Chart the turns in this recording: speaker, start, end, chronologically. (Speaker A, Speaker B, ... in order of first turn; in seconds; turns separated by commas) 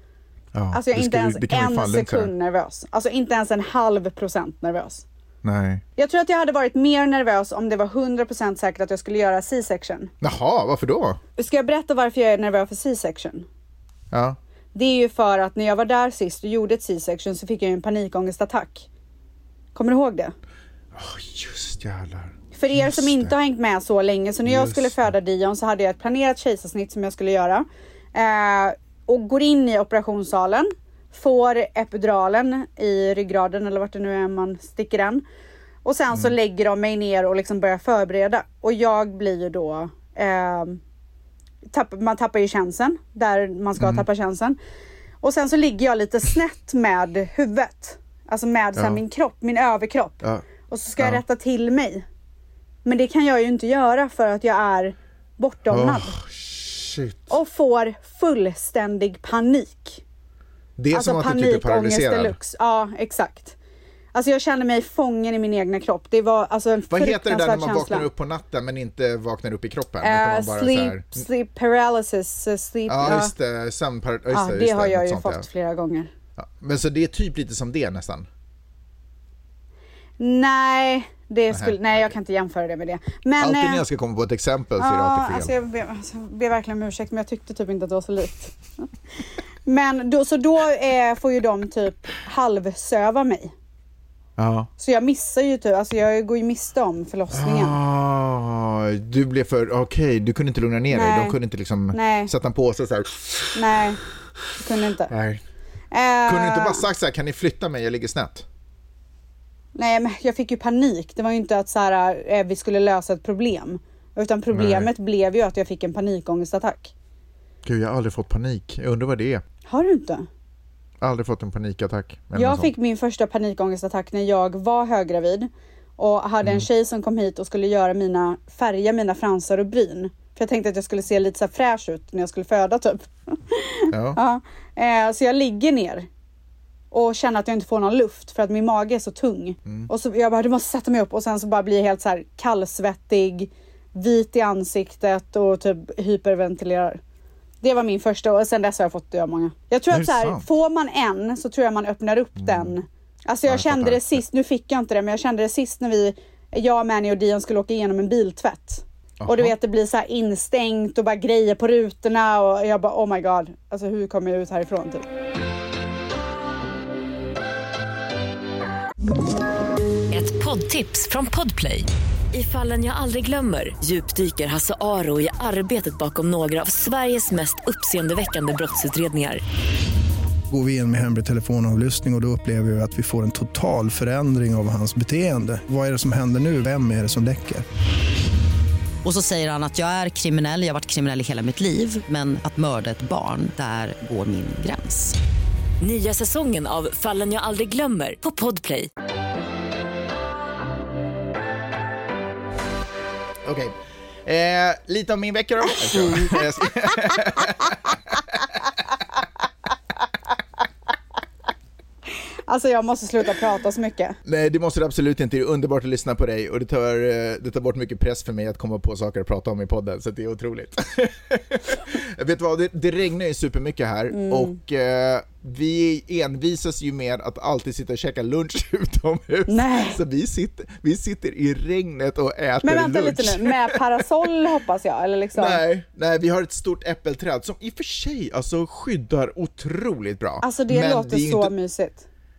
Speaker A: 0.5-2.3, Speaker B: 0.7-5.0, Speaker A: 5.4-5.8, Speaker B: 6.0-10.1, Speaker A: 10.2-11.2, Speaker B: 11.4-13.4, Speaker A: 14.1-14.4, Speaker B: 14.7-18.9, Speaker B: 19.7-20.3, Speaker A: 20.9-23.3, Speaker B: 22.5-35.2, Speaker A: 24.4-25.0, Speaker B: 35.8-40.8, Speaker B: 41.7-44.6, Speaker A: 43.8-44.0, Speaker B: 45.2-52.0, Speaker A: 48.8-49.0, Speaker A: 51.0-51.2, Speaker B: 52.8-56.1, Speaker A: 55.7-57.3, Speaker B: 57.3-60.0, Speaker A: 60.8-62.4, Speaker B: 60.9-63.5, Speaker B: 64.1-68.1, Speaker A: 66.9-71.2, Speaker B: 70.0-73.3, Speaker A: 72.9-75.5, Speaker B: 74.3-76.1, Speaker A: 76.4-78.3, Speaker B: 80.2-83.8, Speaker A: 81.5-81.8, Speaker A: 83.4-85.5, Speaker B: 84.8-88.5, Speaker B: 89.6-93.5, Speaker A: 94.4-94.7, Speaker B: 94.8-97.8, Speaker A: 97.3-103.5, Speaker B: 100.9-101.4, Speaker B: 101.9-102.3, Speaker B: 103.5-104.0, Speaker B: 104.6-105.1, Speaker A: 105.1-105.4, Speaker B: 105.9-106.8, Speaker A: 106.2-108.5, Speaker B: 109.7-116.9, Speaker A: 114.5-114.9, Speaker A: 117.6-119.4, Speaker B: 119.7-120.3, Speaker A: 121.0-122.7, Speaker B: 122.3-136.1, Speaker A: 133.9-134.2, Speaker B: 136.9-147.0, Speaker B: 147.6-165.1, Speaker A: 149.9-150.4, Speaker A: 152.4-152.7, Speaker A: 153.4-154.2, Speaker A: 159.2-159.5, Speaker C: 170.1-179.4, Speaker D: 180.5-187.6, Speaker E: 189.0-195.2, Speaker C: 195.8-198.9, Speaker A: 203.4-208.5, Speaker B: 206.1-206.4, Speaker B: 212.5-214.2, Speaker A: 214.2-233.8, Speaker B: 224.1-224.6, Speaker B: 229.5-230.0, Speaker B: 232.6-235.6, Speaker A: 235.3-241.5, Speaker B: 240.4-242.1